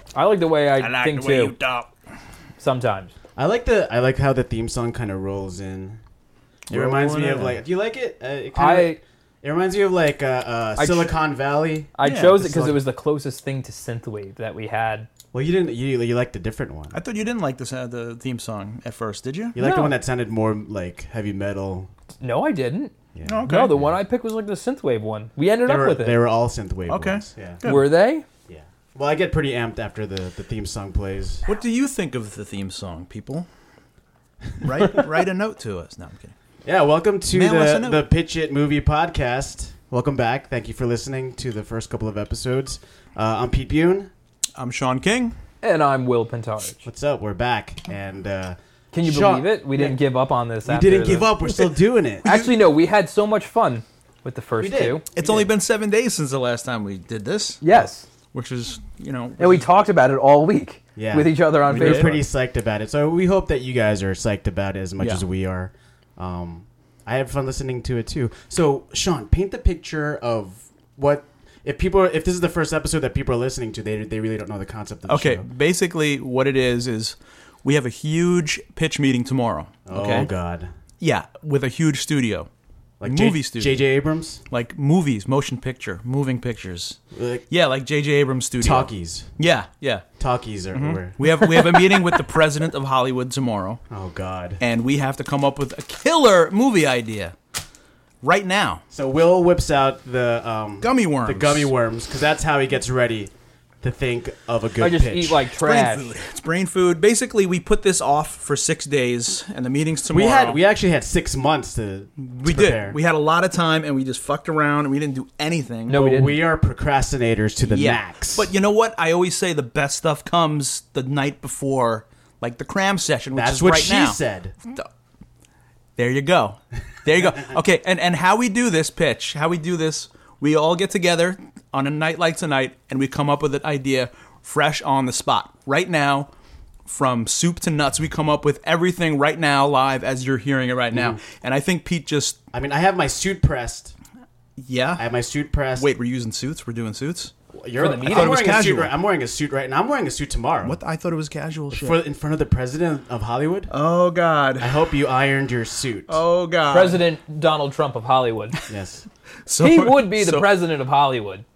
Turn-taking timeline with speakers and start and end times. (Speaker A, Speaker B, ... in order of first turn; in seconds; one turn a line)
Speaker A: 0.1-1.6
Speaker B: 0.8-1.9
Speaker A: 2.6-3.1
Speaker C: 3.4-6.0
Speaker B: 6.7-7.6
Speaker C: 6.7-12.8
Speaker A: 8.6-9.0
Speaker A: 10.8-11.1
Speaker A: 12.0-15.1
Speaker B: 12.0-12.3
Speaker C: 15.3-17.0
Speaker B: 16.9-19.6
Speaker C: 19.5-21.9
Speaker A: 19.6-20.0
Speaker A: 22.2-22.9
Speaker C: 23.1-23.9
Speaker B: 23.3-23.7
Speaker A: 23.4-26.2
Speaker C: 25.7-27.6
Speaker B: 26.9-27.9
Speaker A: 27.6-28.3
Speaker C: 28.5-31.5
Speaker B: 31.5-33.5
Speaker B: 34.6-36.3
Speaker C: 36.6-44.1
Speaker B: 37.3-38.1
Speaker B: 44.6-45.4
Speaker A: 45.6-46.9
Speaker C: 46.9-50.0
Speaker A: 48.9-51.3
Speaker C: 50.6-52.3
Speaker B: 51.5-52.5
Speaker A: 52.2-55.0
Speaker C: 54.6-55.5
Speaker B: 55.2-59.7
Speaker A: 57.6-58.0
Speaker A: 59.4-62.2
Speaker C: 61.0-75.5
Speaker B: 61.6-62.3
Speaker B: 75.1-80.3
Speaker C: 79.9-80.7
Speaker B: 81.0-82.5
Speaker C: 83.0-84.4
Speaker B: 83.0-83.8
Speaker B: 84.5-87.0
Speaker C: 87.1-87.5
Speaker B: 87.5-90.0
Speaker C: 88.6-89.3
Speaker C: 90.2-91.2
Speaker B: 90.7-93.8
Speaker A: 91.5-92.0
Speaker C: 93.9-94.6
Speaker B: 94.6-97.3
Speaker B: 98.2-98.8
Speaker C: 98.9-105.4
Speaker B: 100.8-101.7
Speaker A: 104.8-106.1
Speaker B: 105.6-110.6
Speaker C: 110.1-113.0
Speaker B: 112.2-116.0
Speaker A: 115.9-116.4
Speaker C: 115.9-118.5
Speaker B: 117.7-124.2
Speaker C: 123.3-124.5
Speaker B: 126.0-136.3
Speaker B: 136.9-142.4
Speaker C: 140.9-141.2
Speaker C: 142.5-143.9
Speaker B: 144.6-145.0
Speaker C: 145.0-145.9
Speaker B: 145.8-147.3
Speaker C: 147.5-150.8
Speaker A: 147.8-148.4
Speaker B: 148.0-148.9
Speaker B: 150.6-152.0
Speaker C: 151.7-153.7
Speaker B: 153.7-154.8
Speaker C: 154.6-156.2
Speaker B: 156.1-157.0
Speaker A: 156.7-158.6
Speaker C: 158.7-159.0
Speaker B: 159.5-160.5
Speaker A: 159.6-161.4